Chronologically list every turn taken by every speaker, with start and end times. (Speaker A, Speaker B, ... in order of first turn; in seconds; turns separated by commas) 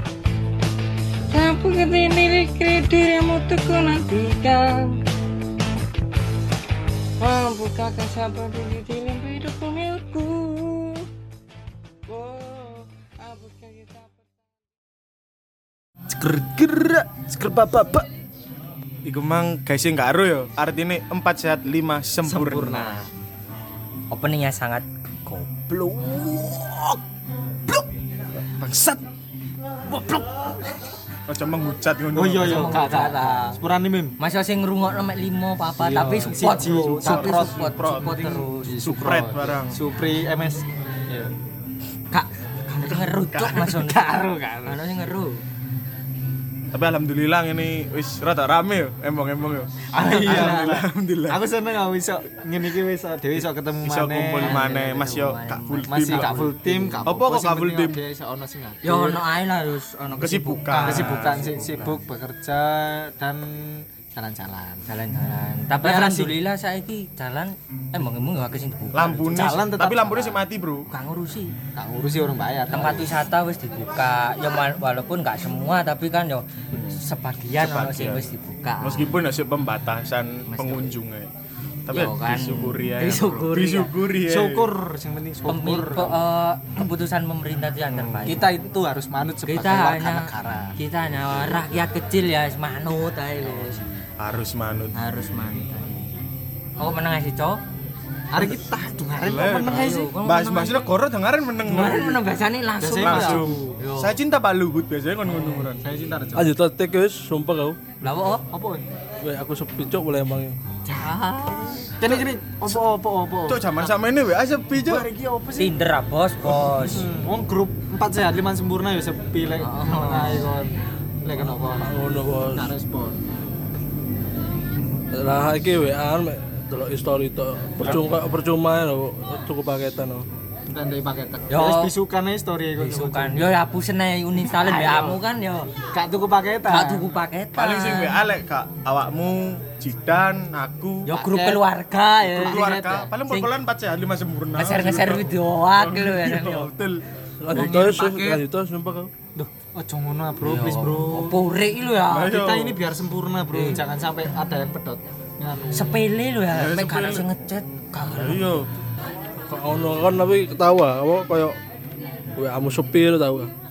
Speaker A: 1.3-5.0, Speaker A: 7.2-11.1, Speaker A: 12.1-14.4, Speaker B: 16.1-18.0, Speaker C: 19.0-23.0, Speaker B: 22.2-23.1, Speaker D: 24.1-26.9, Speaker C: 28.4-29.0, Speaker C: 31.3-32.9, Speaker B: 32.1-34.1, Speaker D: 32.4-33.5, Speaker D: 34.2-38.9, Speaker B: 35.8-41.3, Speaker C: 36.8-38.2, Speaker C: 38.8-39.8, Speaker D: 42.1-45.4, Speaker C: 43.4-43.6, Speaker B: 43.5-44.8, Speaker C: 46.7-51.4, Speaker D: 49.9-50.7, Speaker B: 49.9-54.6, Speaker C: 53.8-56.4, Speaker D: 54.4-57.1, Speaker B: 55.9-59.2, Speaker C: 57.0-58.0, Speaker D: 58.8-62.0, Speaker C: 60.2-61.8, Speaker B: 60.8-64.8, Speaker D: 64.9-69.7, Speaker B: 65.8-66.3, Speaker C: 68.9-70.9, Speaker B: 69.3-70.4, Speaker D: 70.9-71.5, Speaker B: 71.7-73.1, Speaker D: 72.7-79.2, Speaker C: 77.6-78.2, Speaker C: 78.8-81.3, Speaker D: 80.5-80.9, Speaker C: 81.8-84.7, Speaker D: 81.9-83.9, Speaker B: 84.2-86.2, Speaker D: 85.5-88.5, Speaker C: 87.9-88.3, Speaker B: 88.2-90.7, Speaker D: 89.4-93.8, Speaker B: 93.5-93.8, Speaker C: 94.2-94.9, Speaker D: 95.0-96.1, Speaker D: 96.8-97.6, Speaker B: 98.3-100.1, Speaker C: 99.2-102.2, Speaker D: 99.5-100.9, Speaker D: 101.6-104.2, Speaker B: 102.8-103.8, Speaker C: 103.0-105.8, Speaker D: 105.2-105.7, Speaker B: 105.8-106.5, Speaker E: 106.3-107.8, Speaker D: 108.0-108.4, Speaker B: 108.5-108.8, Speaker E: 109.2-110.6, Speaker B: 110.8-111.2, Speaker D: 111.0-111.9, Speaker B: 112.0-113.7, Speaker C: 113.5-115.1, Speaker B: 114.8-115.7, Speaker D: 115.5-117.1, Speaker B: 116.8-123.2, Speaker D: 119.6-120.5, Speaker E: 121.8-122.7, Speaker E: 125.1-130.3, Speaker B: 130.7-133.5, Speaker D: 131.5-131.9, Speaker D: 132.8-135.7, Speaker B: 134.5-135.2, Speaker B: 135.9-137.1, Speaker D: 136.7-138.2, Speaker C: 137.6-141.1, Speaker D: 141.1-142.7, Speaker B: 141.1-141.6, Speaker B: 142.3-143.1, Speaker C: 142.3-147.0, Speaker D: 143.3-143.5, Speaker D: 144.6-146.7, Speaker E: 147.4-149.1, Speaker D: 147.5-148.4, Speaker B: 147.6-147.9, Speaker B: 149.4-151.4, Speaker D: 150.4-152.4, Speaker C: 152.1-152.8, Speaker B: 152.2-156.1, Speaker D: 153.5-153.8, Speaker D: 155.7-158.6, Speaker C: 156.5-157.3, Speaker C: 158.1-158.7, Speaker E: 159.5-161.6, Speaker E: 162.4-163.5